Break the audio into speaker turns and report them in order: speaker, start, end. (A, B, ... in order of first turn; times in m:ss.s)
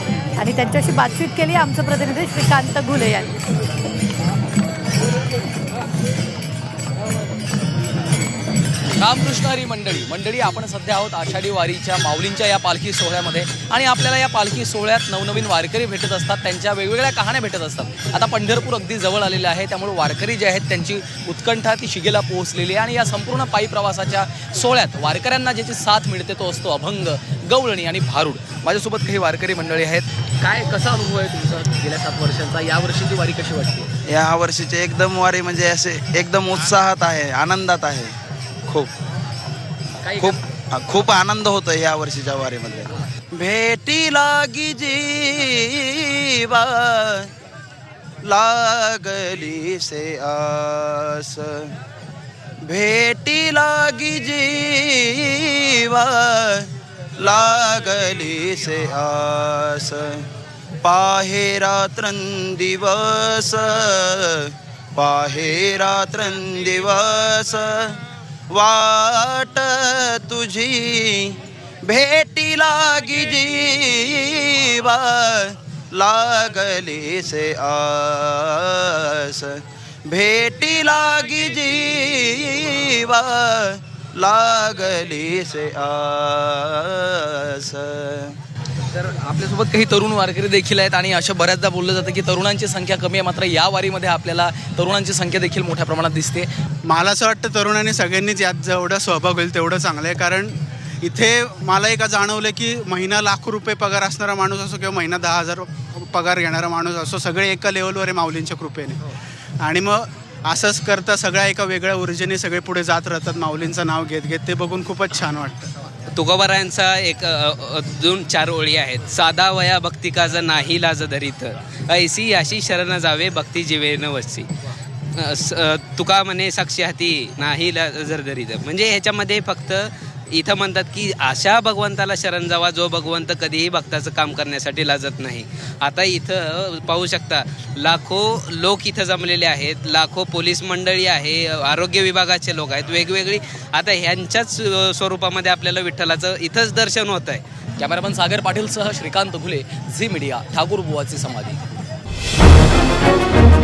0:00.4-0:03.4 A
0:09.0-0:33.9 B
0:34.1-0:38.9 C
0:40.0-0:40.4 B
0:40.2-0:47.3 C
0:48.2-0:51.8 C
0:52.6-1:00.3 C
1:00.8-1:28.4 C
1:28.9-1:36.5 B
1:36.8-1:55.7 D
1:56.1-2:04.5 E
2:05.1-2:27.4 E
2:27.8-2:31.6 B